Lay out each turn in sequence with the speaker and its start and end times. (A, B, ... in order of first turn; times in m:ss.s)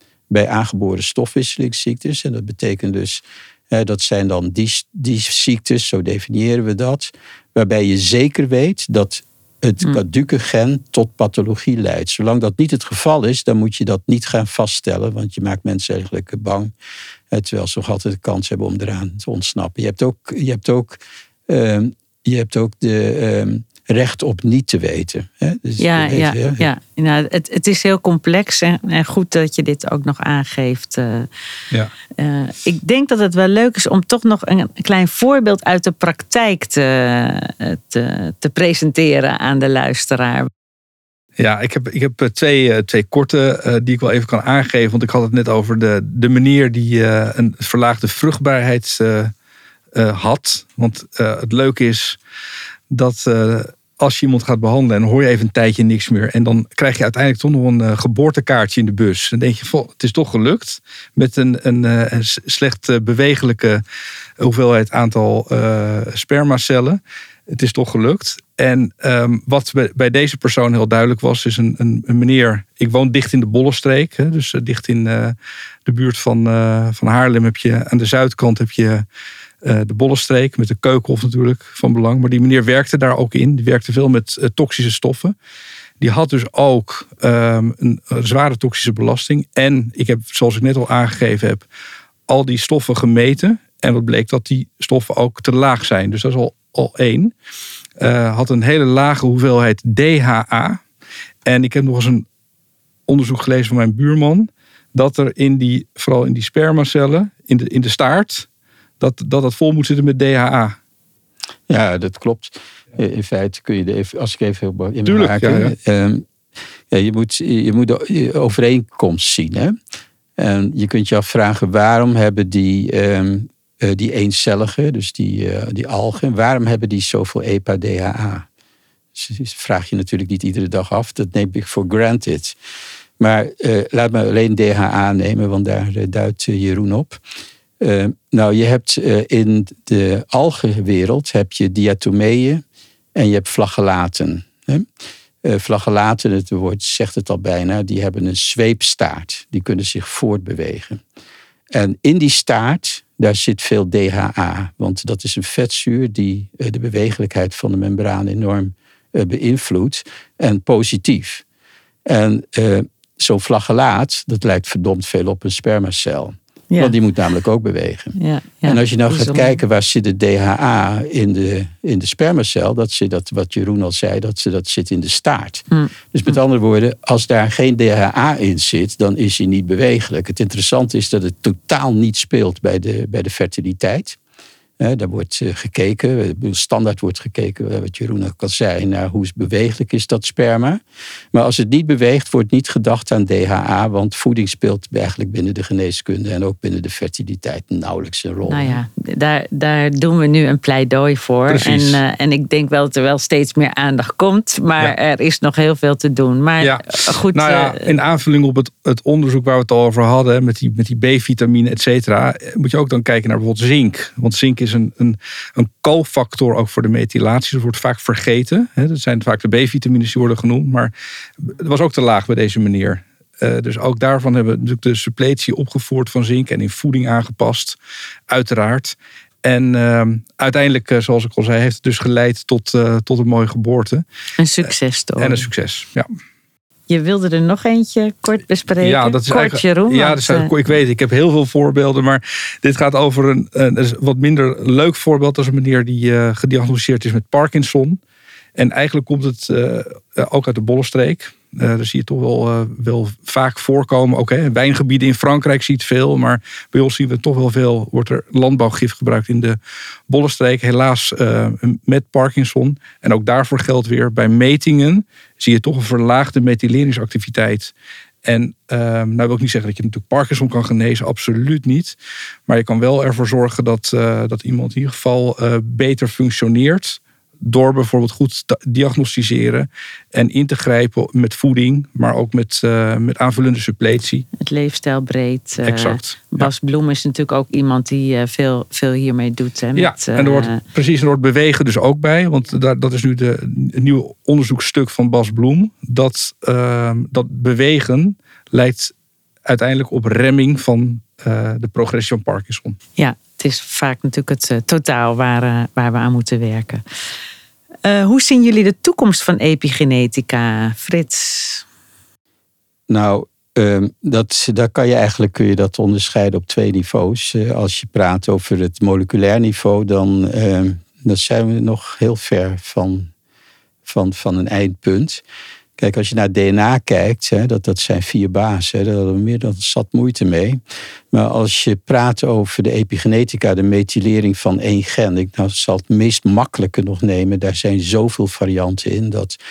0:00.3-0:16.7 A
0:17.3-0:26.6 A
0:25.8-0:31.3 B
0:32.2-0:40.5 B
0:41.4-0:49.3 C
0:49.9-0:52.2 C
0:52.9-1:03.8 C
1:04.4-1:15.4 C
1:15.9-1:19.0 C
1:19.6-1:25.4 C
1:26.0-1:31.6 C
1:32.3-1:37.3 C
1:38.0-1:40.8 C
1:41.5-1:42.3 C
1:43.1-1:48.5 C
1:49.0-1:50.8 C
1:51.7-1:56.2 A
1:55.1-1:55.7 C
1:56.9-1:59.8 A
2:00.4-2:08.5 A
2:09.2-2:12.6 A
2:13.2-2:17.2 A
2:17.8-2:22.6 A
2:23.2-2:24.9 A
2:25.4-2:31.0 A
2:31.7-2:41.4 A
2:42.1-3:04.2 A
2:48.2-2:49.6 B
3:04.8-3:10.8 A
3:11.3-3:18.8 A
3:18.5-3:27.9 B
3:21.5-3:22.0 C
3:26.6-3:47.8 C
3:48.3-3:54.0 C
3:54.4-3:55.5 B
3:54.6-3:56.1 C
3:56.9-4:00.6 B
3:58.8-4:08.0 C
4:08.6-4:27.7 C
4:28.2-4:32.0 C
4:32.5-4:44.3 C
4:44.4-4:50.6 B
4:45.6-4:46.5 C
4:49.8-4:58.9 C
4:59.5-5:02.8 C
5:03.0-5:06.8 B
5:07.8-5:11.6 B
5:12.9-5:23.1 A
5:23.9-5:25.2 A
5:25.8-5:30.6 A
5:31.1-5:39.4 A